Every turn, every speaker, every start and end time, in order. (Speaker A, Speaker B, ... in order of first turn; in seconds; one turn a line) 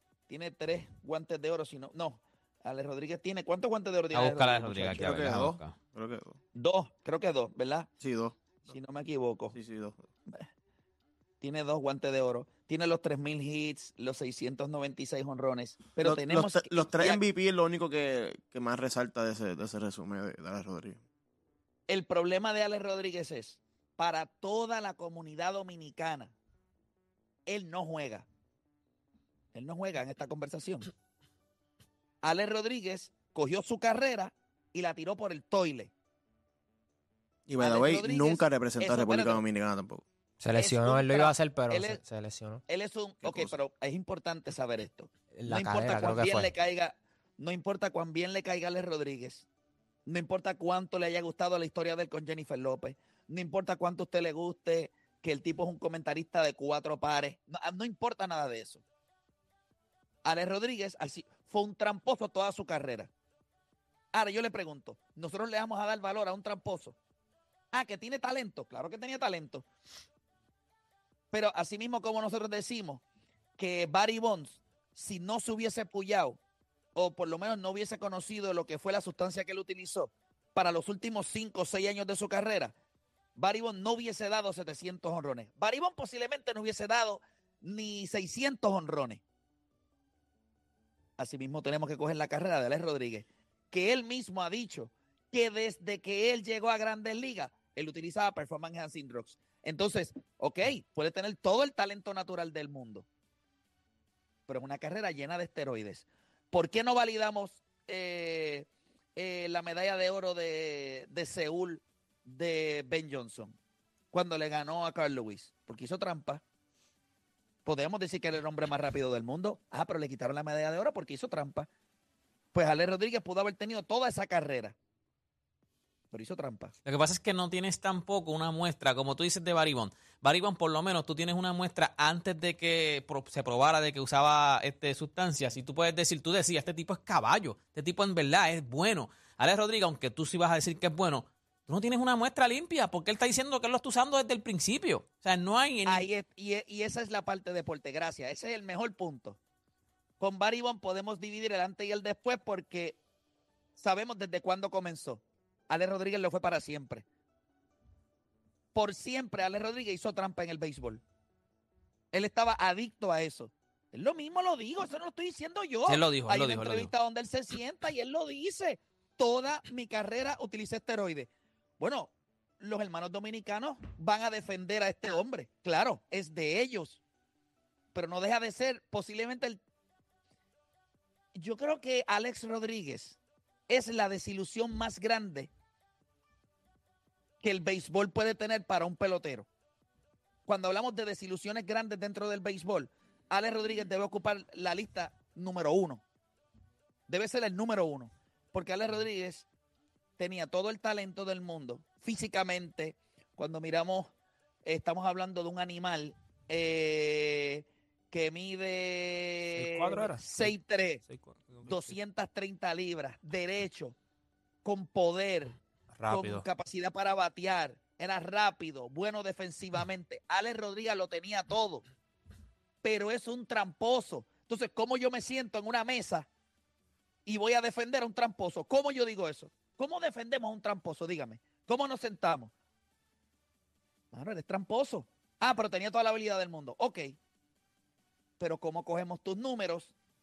Speaker A: 0.3-5.2
Speaker B: 4.1-5.7
Speaker C: 4.9-6.4
Speaker A: 6.5-7.9
Speaker C: 8.0-8.7
Speaker A: 8.7-9.5
Speaker C: 9.5-10.0
Speaker A: 11.4-17.2
Speaker C: 16.0-21.0
Speaker A: 21.9-26.3
Speaker A: 27.4-28.3
Speaker A: 29.5-30.9
Speaker A: 32.2-35.9
Speaker C: 37.5-40.0
Speaker A: 37.6-39.4
Speaker D: 40.4-42.6
Speaker A: 40.5-42.0
Speaker A: 42.7-49.4
Speaker C: 43.2-43.5
Speaker D: 45.3-46.5
Speaker A: 50.0-58.8
Speaker A: 60.2-63.1
Speaker A: 64.1-67.0
Speaker A: 67.7-69.7
Speaker A: 71.3-73.0
Speaker A: 73.6-76.4
Speaker A: 76.9-82.7
Speaker A: 83.4-89.2
Speaker A: 91.2-103.0
Speaker A: 104.5-113.5
Speaker A: 114.1-116.4
Speaker A: 117.6-121.7
Speaker A: 122.5-124.7
Speaker A: 126.1-126.7
Speaker B: 126.8-146.1
Speaker A: 145.8-149.4
Speaker A: 150.2-153.0
Speaker A: 153.8-157.0
Speaker A: 158.7-161.0
Speaker A: 162.1-177.0
Speaker B: 165.8-166.9
Speaker A: 177.9-179.6
Speaker A: 181.3-185.5
Speaker A: 187.4-189.5
Speaker A: 190.4-196.0
Speaker A: 197.1-199.4
Speaker A: 200.2-204.1
Speaker A: 204.6-211.0
Speaker E: 209.5-211.9
Speaker A: 211.6-213.9
Speaker A: 214.6-215.6
Speaker E: 215.9-216.4
Speaker A: 216.1-221.8
Speaker A: 222.8-226.3
Speaker A: 227.2-232.5
Speaker A: 234.1-237.2
Speaker A: 238.4-239.9